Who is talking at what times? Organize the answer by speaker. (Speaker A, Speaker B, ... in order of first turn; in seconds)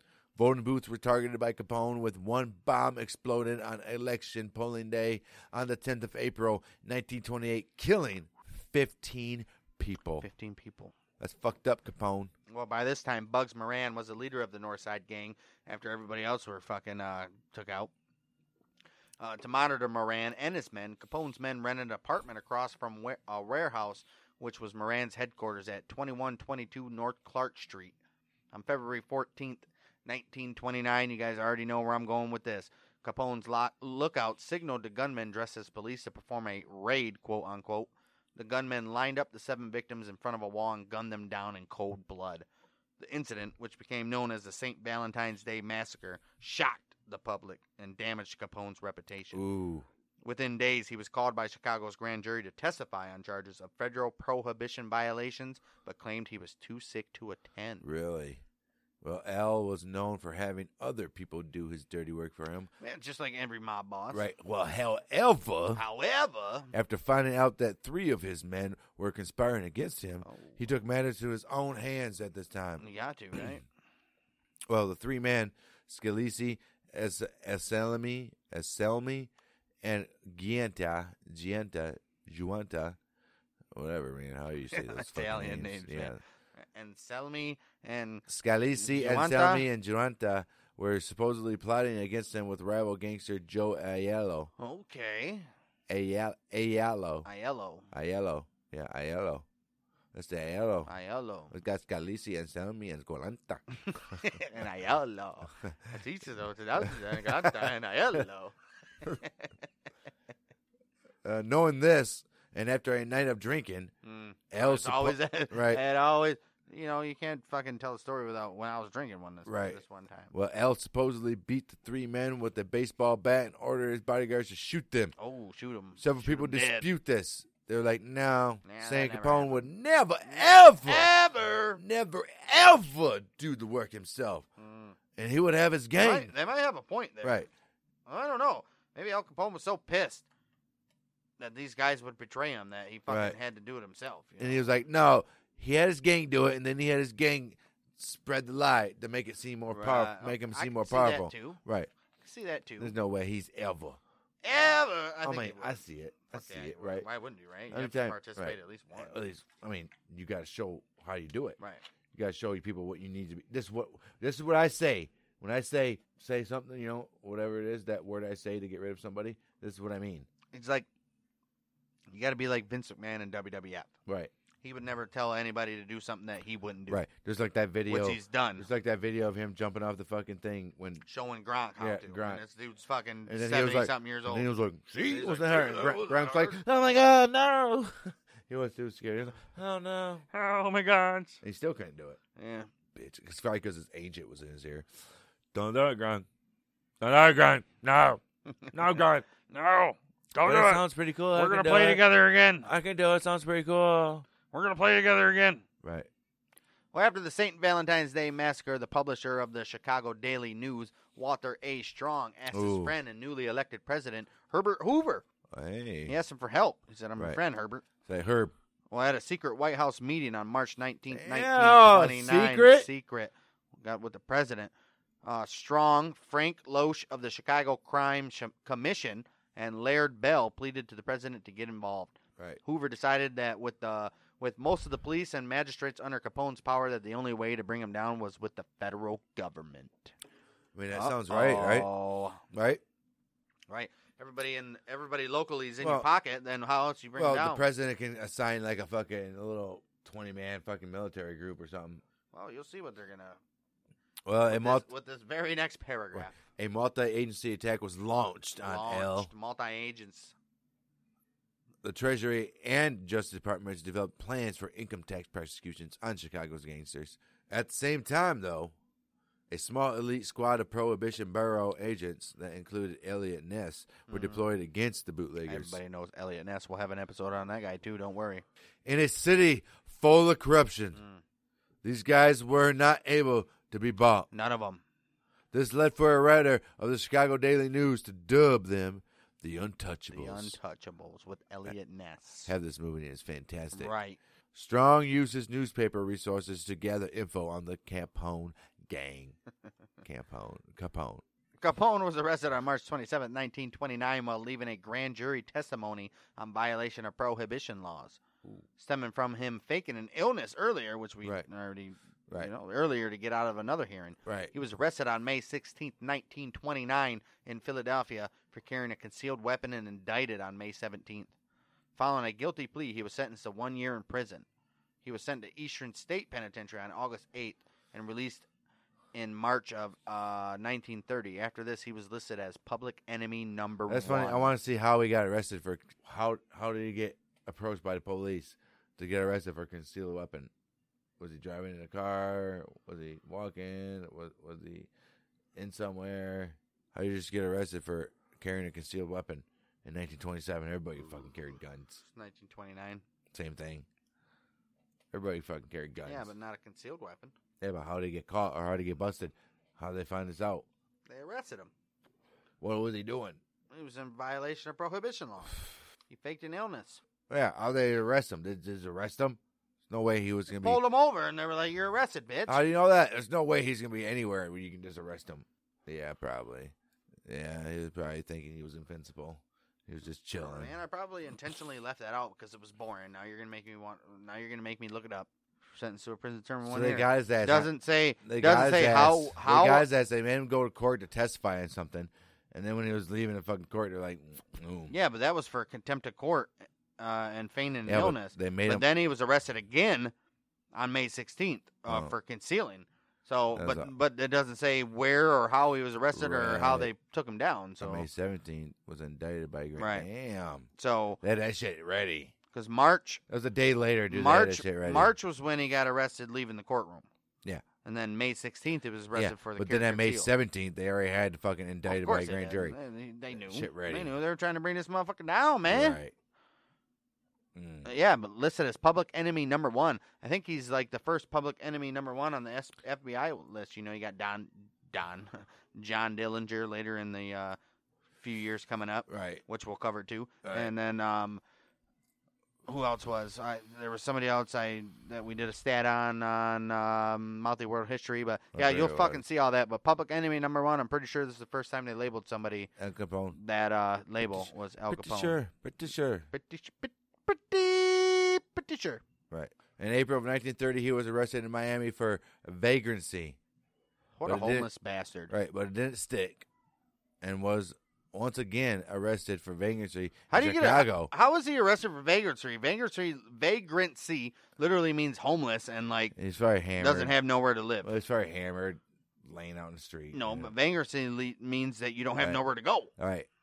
Speaker A: 0.4-10.3, 11.2-12.3, 49.3-49.9, 57.8-58.4, 59.0-62.7, 64.1-65.8, 66.7-73.6, 74.7-79.3, 79.8-83.0, 83.7-86.2, 88.3-94.5, 95.9-97.3, 97.9-99.5, 100.1-100.9, 101.5-104.2, 107.1-107.7, 111.2-113.9, 114.5-115.8, 119.5-119.8, 120.3-125.1, 126.0-131.1, 131.8-134.5, 135.2-136.3, 137.2-137.5, 143.1-143.4, 144.4-151.9, 152.8-154.0, 155.2-157.1, 157.7-161.6, 162.1-170.3, 174.1-174.3, 176.9-181.1, 181.8-182.4, 183.3-190.2, 191.4-192.2, 192.9-194.9, 195.5-196.3, 197.0-198.2, 198.7-199.3, 200.4-202.0, 202.6-204.3, 205.8-206.1, 212.5-212.9, 215.5-216.2, 218.1-218.5, 221.1-222.9, 240.8-241.9, 242.5-242.8, 245.8-246.1, 247.2-252.0, 254.3-254.9, 256.1-259.3, 261.8-268.7, 269.5-275.8, 278.9-281.0, 281.8-284.3, 285.5-290.6, 292.5-293.9, 294.5-299.4, 300.0-301.2, 314.3-314.5, 333.9-340.5, 341.2-344.9, 345.6-352.0, 353.3-353.9, 355.1-356.3, 357.6-360.6, 362.6-363.4, 367.3-370.8, 372.5-376.7, 377.3-380.7, 386.6-387.7, 388.2-394.9, 397.9-398.9, 401.9-402.1, 403.5-403.9, 406.1-406.9, 407.8-410.7, 411.2-412.3, 413.3-415.1, 419.1-422.8, 423.3-424.1, 425.7-426.1, 427.6-427.9, 439.1-439.4, 440.4-440.7, 448.5-449.2, 452.8-453.4, 454.2-456.3, 459.3-463.4, 464.2-464.7, 465.3-466.5, 467.2-471.1, 476.1-477.1, 477.8-480.5, 483.0-483.3
Speaker B: 10.2-10.9, 12.5-17.9, 19.2-27.9, 28.5-42.5, 43.0-49.4, 50.2-57.9, 62.8-64.3, 65.8-66.7, 70.2-70.6, 72.8-73.6, 84.7-89.7, 94.6-95.5, 97.2-97.9, 100.9-101.5, 103.8-109.5, 114.0-120.3, 125.2-126.9, 128.6-129.7, 130.2-131.8, 134.6-135.0, 136.0-137.4, 138.1-140.3, 141.4-144.7, 149.7-151.6, 152.2-152.9, 154.4-159.2, 161.6-161.8, 170.5-170.9, 172.1-173.9, 174.6-177.0, 177.9-178.7, 181.1-184.5, 185.0-186.6, 190.3-191.4, 192.4-192.7, 199.5-200.8, 201.3-202.7, 204.5-205.6, 206.9-215.2, 216.1-217.9, 218.9-224.7, 225.2-240.1, 240.9-242.4, 243.7-247.6, 252.3-253.4, 254.4-256.4, 258.6-260.4, 274.1-274.5, 275.5-278.4, 280.9-281.2, 284.3-284.8, 290.1-292.5, 293.7-294.2, 301.6-308.2, 308.8-321.3, 322.0-324.5, 325.0-328.5, 329.1-334.6, 352.0-353.0, 356.1-357.4, 361.1-361.7, 363.7-367.0, 370.5-372.6, 380.4-389.9, 394.9-400.1, 400.7-408.1, 409.8-410.1, 410.8-411.2, 412.5-413.2, 414.1-417.1, 417.8-420.3, 421.9-426.0, 427.9-437.6, 438.2-441.4, 442.7-452.7, 453.4-455.4, 456.3-459.0, 464.2-465.3, 470.3-476.1, 476.8-477.9, 480.1-482.9